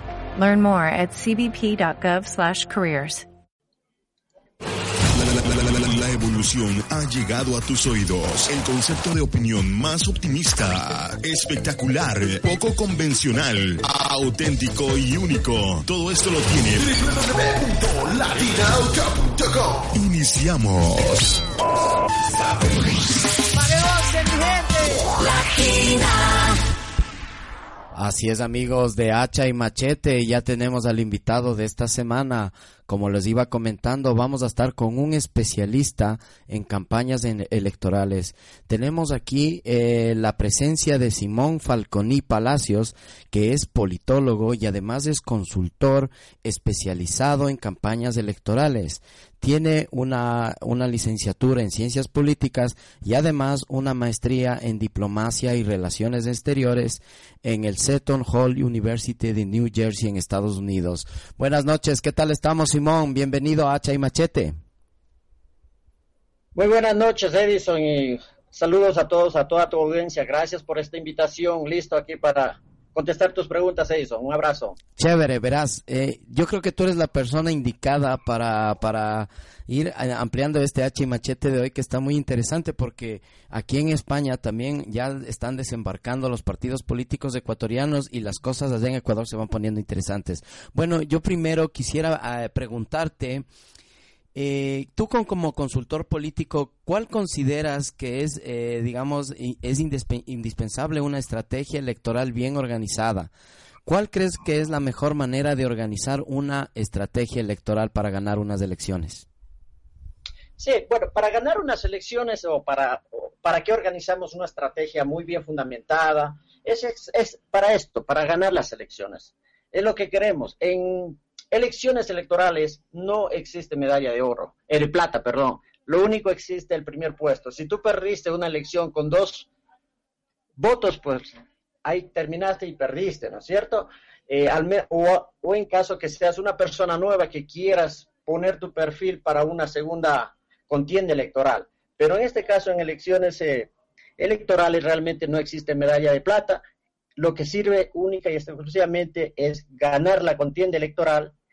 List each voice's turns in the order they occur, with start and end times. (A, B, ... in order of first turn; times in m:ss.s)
0:00.4-0:03.3 A
0:05.0-0:21.4 B
0:23.6-0:25.0 C
0:27.9-1:04.6 D
1:06.6-1:14.8 C
1:15.0-1:33.4 D
1:34.4-1:43.3 D
1:43.9-1:49.2 D
1:50.6-2:09.5 C
2:10.6-2:11.3 C
2:11.8-2:26.6 C
2:27.2-2:31.3 C